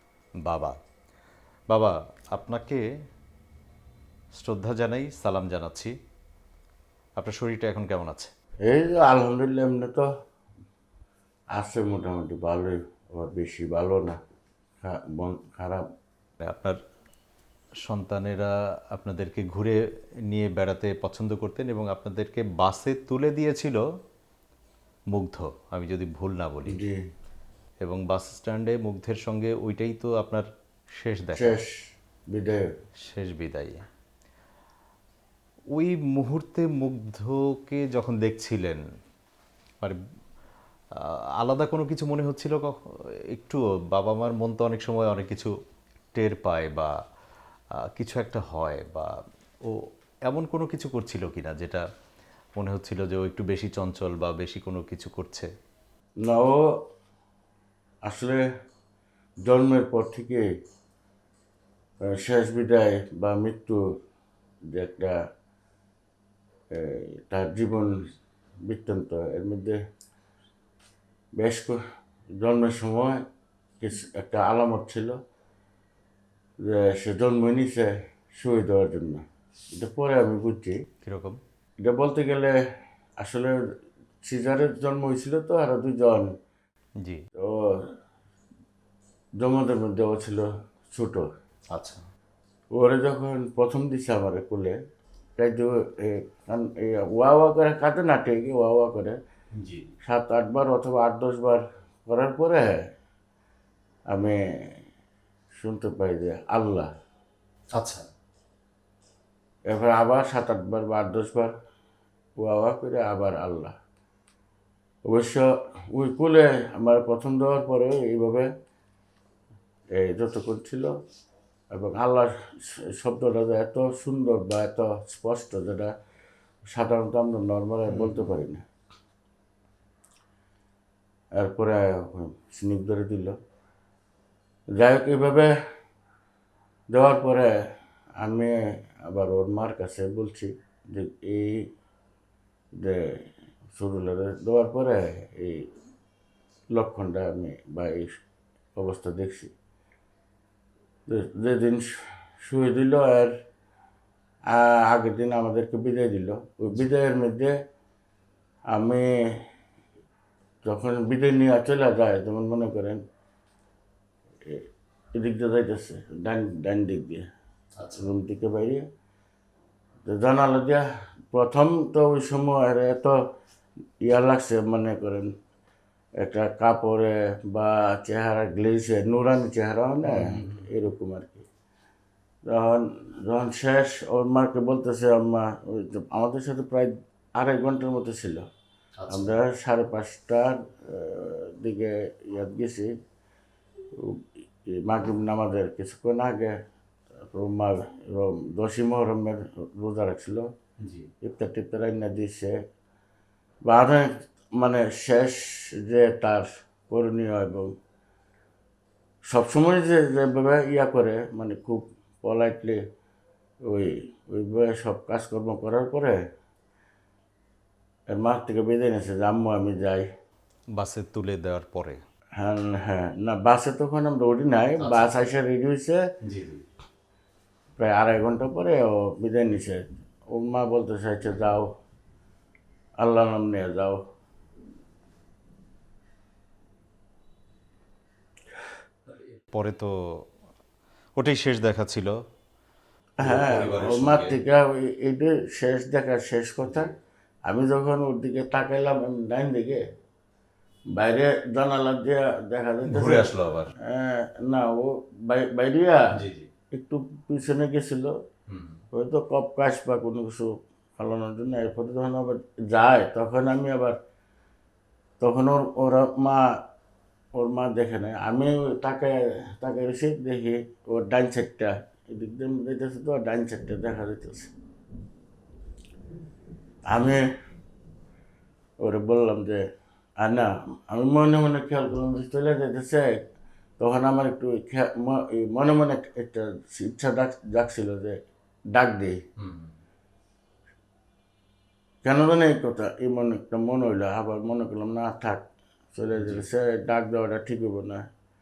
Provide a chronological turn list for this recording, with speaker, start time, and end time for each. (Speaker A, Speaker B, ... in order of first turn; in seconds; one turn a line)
Speaker A: 0.5-0.8
Speaker A: 1.7-2.8
Speaker A: 4.3-5.9
Speaker A: 7.2-8.3
Speaker B: 8.7-10.1
Speaker B: 11.6-14.2
Speaker B: 14.8-15.8
Speaker A: 16.4-16.8
Speaker A: 17.9-19.8
Speaker A: 20.3-23.8
Speaker A: 25.1-26.8
Speaker B: 26.7-27.0
Speaker A: 27.8-31.6
Speaker B: 31.4-31.8
Speaker B: 32.3-32.6
Speaker A: 33.1-33.8
Speaker A: 35.8-38.8
Speaker A: 41.0-42.8
Speaker A: 43.3-45.5
Speaker A: 46.1-46.9
Speaker A: 48.0-49.1
Speaker A: 49.6-51.8
Speaker A: 52.6-55.5
Speaker B: 56.2-56.7
Speaker B: 58.1-58.4
Speaker B: 59.5-60.5
Speaker B: 62.0-63.8
Speaker B: 64.7-65.2
Speaker B: 66.7-68.1
Speaker B: 68.7-69.8
Speaker B: 71.4-71.8
Speaker B: 72.4-73.2
Speaker B: 73.8-75.2
Speaker B: 76.6-79.2
Speaker B: 79.7-80.8
Speaker A: 81.0-81.4
Speaker B: 81.8-82.6
Speaker B: 83.2-83.5
Speaker B: 84.2-86.3
Speaker B: 87.4-87.9
Speaker B: 89.4-91.3
Speaker A: 91.7-92.0
Speaker B: 92.8-94.8
Speaker B: 95.4-99.2
Speaker A: 99.6-99.9
Speaker B: 100.1-102.8
Speaker B: 104.1-104.4
Speaker B: 105.6-106.9
Speaker A: 107.8-108.1
Speaker B: 109.7-111.5
Speaker B: 112.4-113.8
Speaker B: 115.1-118.5
Speaker B: 120.0-120.9
Speaker B: 121.7-125.9
Speaker B: 126.7-128.7
Speaker A: 127.9-128.3
Speaker B: 131.4-133.3
Speaker B: 134.8-135.5
Speaker B: 136.9-137.5
Speaker B: 138.2-138.6
Speaker B: 139.1-141.7
Speaker B: 142.8-143.2
Speaker B: 143.7-145.7
Speaker B: 146.7-148.1
Speaker B: 148.8-149.5
Speaker B: 151.1-151.9
Speaker B: 152.4-153.3
Speaker B: 154.5-157.5
Speaker B: 158.7-159.1
Speaker B: 160.7-163.0
Speaker B: 165.2-167.2
Speaker A: 167.8-168.1
Speaker B: 167.9-168.8
Speaker B: 170.1-173.2
Speaker B: 174.0-175.3
Speaker B: 176.2-181.5
Speaker A: 180.1-180.7
Speaker B: 182.5-188.5
Speaker A: 189.0-189.4
Speaker B: 189.1-192.9
Speaker B: 194.8-196.6
Speaker B: 197.2-200.5
Speaker A: 200.8-201.1
Speaker B: 201.2-202.6
Speaker B: 203.7-207.7
Speaker B: 209.3-212.8
Speaker B: 213.7-216.2
Speaker B: 218.1-220.1
Speaker A: 220.8-222.0
Speaker B: 222.4-226.0
Speaker A: 224.8-225.2
Speaker A: 226.2-226.6
Speaker B: 227.8-231.7
Speaker B: 233.0-234.0
Speaker A: 239.5-239.9
Speaker A: 241.2-242.2
Speaker A: 243.2-244.4
Speaker B: 243.2-246.9
Speaker A: 246.7-246.9
Speaker B: 247.5-249.8
Speaker B: 251.0-253.3
Speaker A: 252.9-253.7
Speaker B: 253.8-256.0
Speaker A: 256.1-256.5
Speaker B: 256.7-258.1
Speaker A: 258.5-258.8
Speaker B: 258.9-264.0
Speaker B: 265.2-266.4
Speaker B: 267.4-274.5
Speaker B: 276.9-277.3
Speaker B: 278.8-279.6
Speaker B: 280.2-283.2
Speaker B: 283.8-288.2
Speaker B: 288.7-289.2
Speaker A: 289.4-289.7
Speaker B: 292.0-298.1
Speaker A: 296.1-296.5